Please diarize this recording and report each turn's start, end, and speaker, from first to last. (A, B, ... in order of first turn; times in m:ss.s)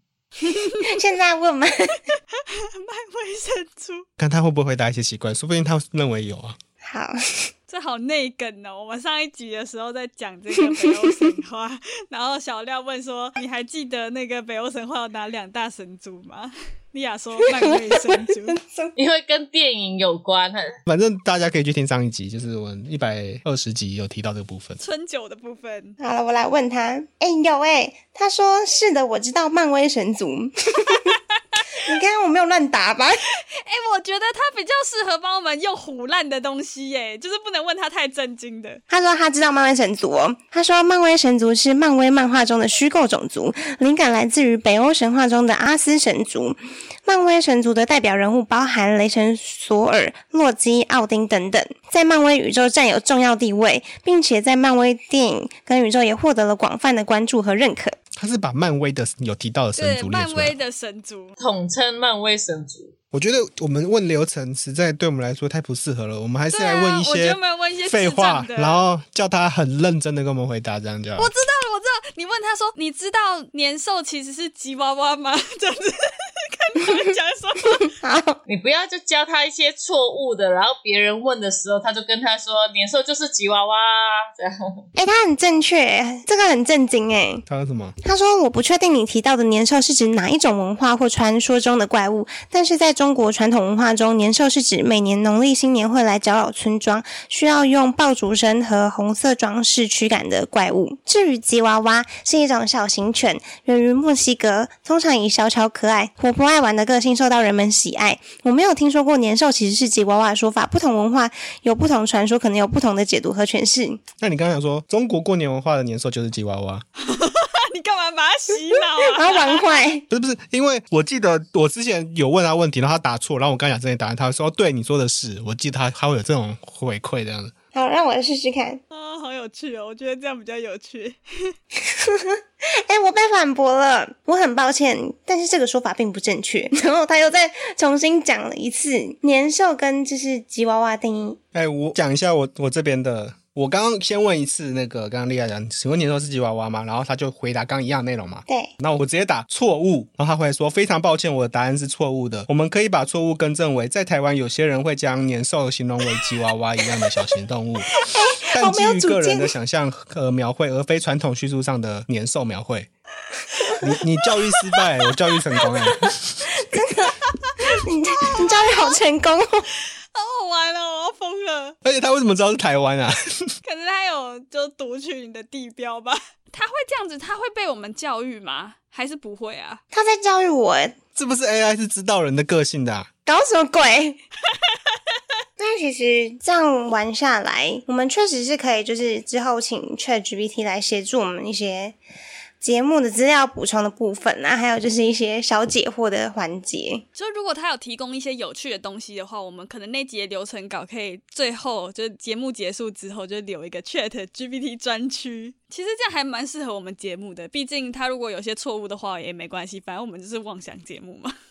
0:00.8-0:02.0 A
0:02.5-0:04.1 B
0:04.2-0:06.6 C
0:06.8-0:07.5 A
0:07.7-0:18.6 B
0:17.5-0:18.9 A
0:19.0-0:20.7 D
0:20.9-0:24.8 C
0:24.8-0:26.0 B
0:26.0-0:31.2 A
0:31.7-0:33.2 A
0:33.6-0:38.8 B
0:38.9-0:58.0 A
0:58.2-1:00.6 C
0:59.8-1:01.4 B
1:01.4-1:02.9 D
1:03.1-1:11.3 C
1:06.5-1:08.8 B
1:11.2-1:17.9 B
1:17.9-1:18.4 A
1:18.5-1:24.9 D
1:25.0-1:27.4 A
1:27.5-1:28.0 C
1:28.0-1:54.0 A
1:54.2-1:56.8 C
1:57.0-1:59.6 B
1:58.8-2:00.0 A
2:00.1-2:07.5 C
2:07.7-2:08.8 A
2:08.9-2:11.5 B
2:11.8-2:21.4 A
2:21.5-2:42.9 C
2:38.0-2:39.5 A
2:43.8-2:46.4 C
2:46.6-2:49.7 A
2:48.2-2:49.0 B
2:50.1-2:51.8 B
2:51.8-2:53.5 C
2:53.6-2:59.8 B
2:59.9-3:01.0 A
3:01.2-3:03.1 C
3:03.3-3:04.2 A
3:05.6-3:12.0 A
3:12.6-3:17.0 A
3:17.2-3:31.4 B